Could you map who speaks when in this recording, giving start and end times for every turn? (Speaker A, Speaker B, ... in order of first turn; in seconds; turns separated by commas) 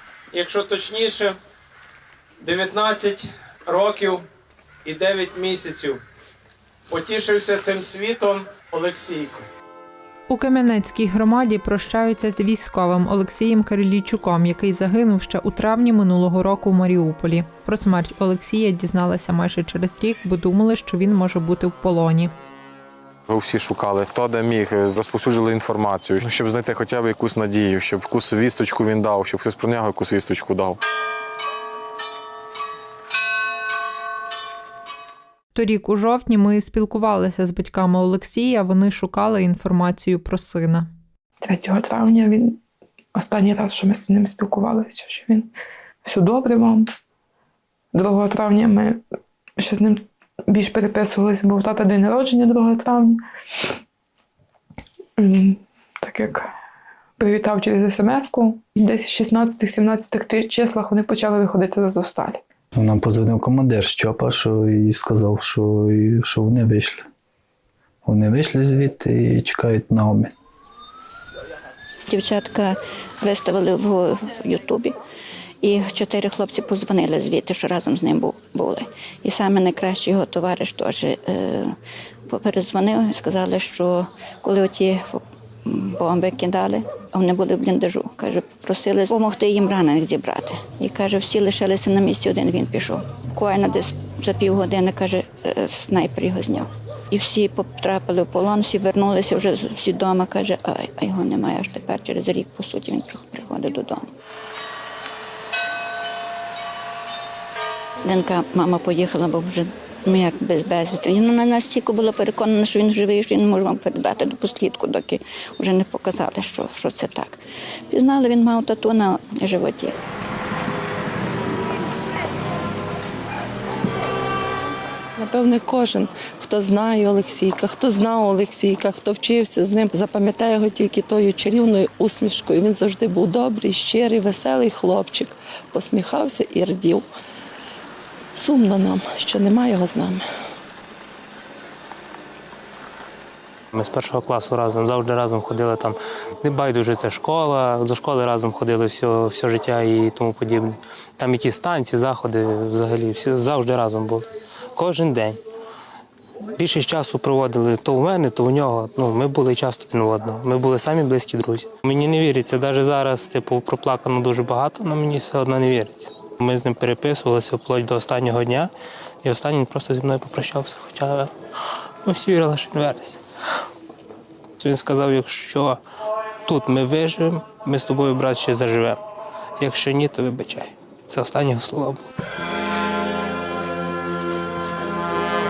Speaker A: 0.3-1.4, Speaker A: 2.4-4.2, Speaker A: 4.8-6.0, Speaker A: 6.9-9.4, Speaker B: 10.3-22.3, Speaker C: 23.3-30.8, Speaker B: 35.5-40.9, Speaker D: 41.4-42.6, Speaker D: 43.1-45.5, Speaker D: 46.0-46.9, Speaker D: 47.9-49.0, Speaker D: 49.6-53.2, Speaker D: 55.2-56.5, Speaker D: 57.2-62.4, Speaker E: 62.8-67.0, Speaker E: 68.0-70.3, Speaker F: 72.1-75.0, Speaker F: 75.6-81.8, Speaker F: 82.3-104.1, Speaker F: 108.0-120.0, Speaker G: 125.9-126.8, Speaker G: 127.5-127.8, Speaker G: 128.9-130.9, Speaker G: 133.4-134.1, Speaker G: 135.2-136.1, Speaker H: 143.7-155.4, Speaker H: 156.6-168.7, Speaker H: 169.2-171.3, Speaker H: 172.0-173.2, Speaker H: 174.6-175.8, Speaker H: 176.4-179.0, Speaker H: 179.6-182.1